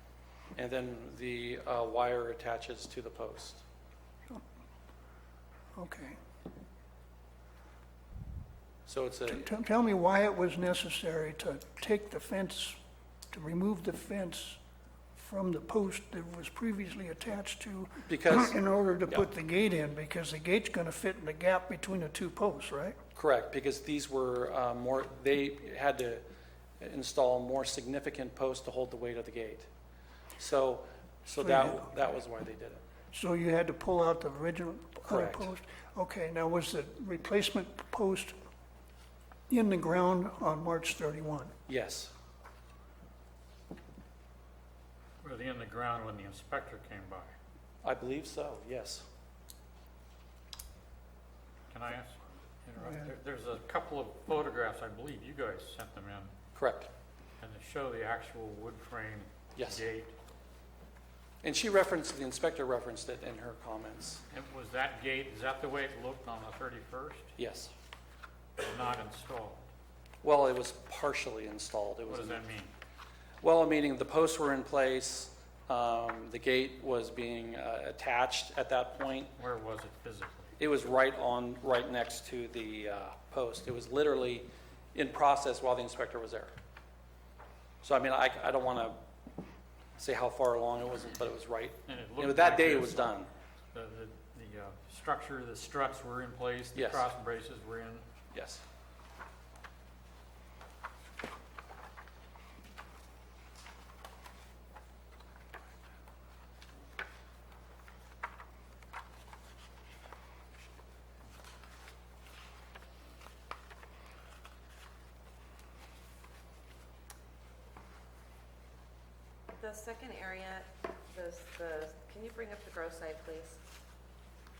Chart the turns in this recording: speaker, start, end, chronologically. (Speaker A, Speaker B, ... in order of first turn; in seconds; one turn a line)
Speaker A: 0.6-3.6
Speaker B: 5.7-6.2
Speaker A: 8.9-9.6
Speaker B: 9.3-12.8
Speaker B: 13.3-14.6
Speaker B: 15.2-23.0
Speaker A: 18.1-19.3
Speaker A: 23.1-26.2
Speaker A: 26.8-29.7
Speaker A: 30.4-32.8
Speaker B: 31.3-31.9
Speaker B: 33.1-38.4
Speaker A: 35.0-35.5
Speaker B: 39.5-41.5
Speaker A: 41.7-42.1
Speaker C: 45.2-47.3
Speaker A: 47.8-49.1
Speaker C: 51.7-56.3
Speaker A: 56.5-56.9
Speaker C: 57.4-60.1
Speaker A: 59.6-59.8
Speaker A: 61.4-64.2
Speaker C: 64.3-67.3
Speaker A: 67.4-67.7
Speaker C: 68.6-69.7
Speaker A: 70.2-72.4
Speaker C: 72.1-72.7
Speaker A: 73.4-79.3
Speaker C: 79.4-80.5
Speaker A: 80.6-86.5
Speaker A: 87.8-89.0
Speaker A: 90.0-93.3
Speaker C: 91.9-93.2
Speaker C: 93.7-98.0
Speaker A: 96.7-97.1
Speaker A: 98.3-98.6
Speaker D: 119.5-123.6